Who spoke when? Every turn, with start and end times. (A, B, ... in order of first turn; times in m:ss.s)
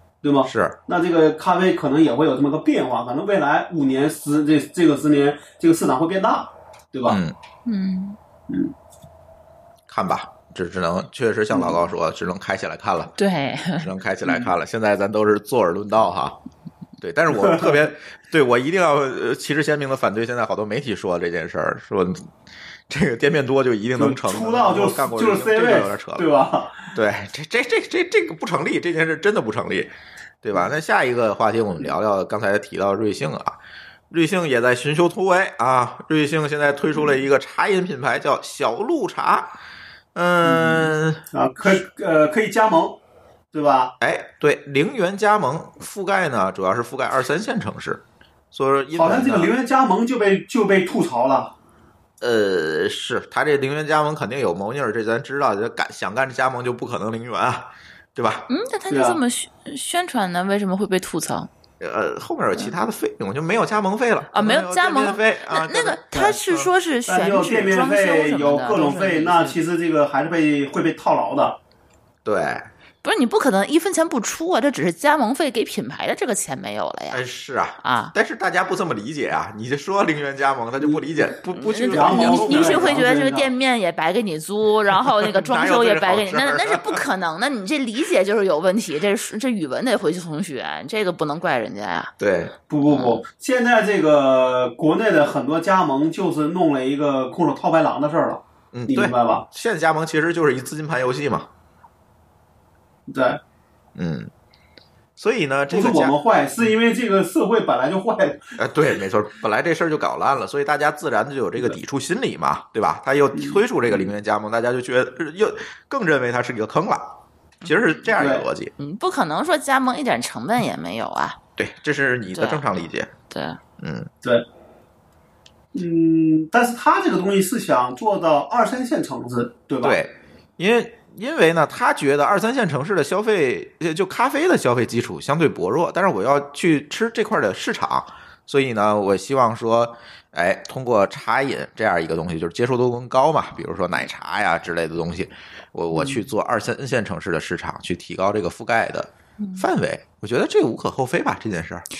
0:00.2-0:07.2 A
0:00.4-0:00.8 B
0:07.1-0:07.4 B
0:07.6-0:08.2 C
0:09.9-0:13.2 B
0:11.5-0:11.8 A
0:13.2-0:13.9 C
0:13.8-0:16.4 B
0:17.0-0:22.3 B
0:17.3-0:17.8 A
0:22.9-0:26.3 B
0:24.0-0:26.9 A
0:26.9-0:33.6 B
0:34.1-0:39.5 B
0:40.2-0:41.8 B
0:40.4-0:43.0 A
0:43.5-0:43.9 A
0:44.0-0:49.5 B
0:49.0-0:51.5 A
0:52.2-0:58.5 B
0:58.5-1:01.5 C
0:58.9-0:59.2 A
1:01.8-1:06.7 B
1:04.3-1:09.6 C
1:07.1-1:11.6 A
1:12.2-1:12.7 B
1:13.0-1:17.2 C
1:17.1-1:23.1 B
1:17.8-1:18.1 C
1:20.8-1:21.0 A
1:21.5-1:32.1 C
1:21.9-1:23.5 A
1:25.0-1:27.0 B
1:32.2-1:32.6 B
1:32.7-1:39.4 A
1:32.9-1:33.2 C
1:38.7-1:41.5 B
1:43.1-1:43.4 A
1:44.0-1:44.3 B
1:45.2-1:46.2 B
1:45.7-1:48.6 A
1:48.6-1:58.7 B
1:53.3-1:54.1 A
1:57.6-1:58.0 C
1:58.2-1:58.4 A
1:58.8-2:01.4 C
2:01.6-2:03.1 B
2:02.3-2:02.6 C
2:03.3-2:03.6 C
2:03.8-2:04.1 B
2:05.7-2:10.0 A
2:09.8-2:31.8 B
2:29.4-2:29.7 C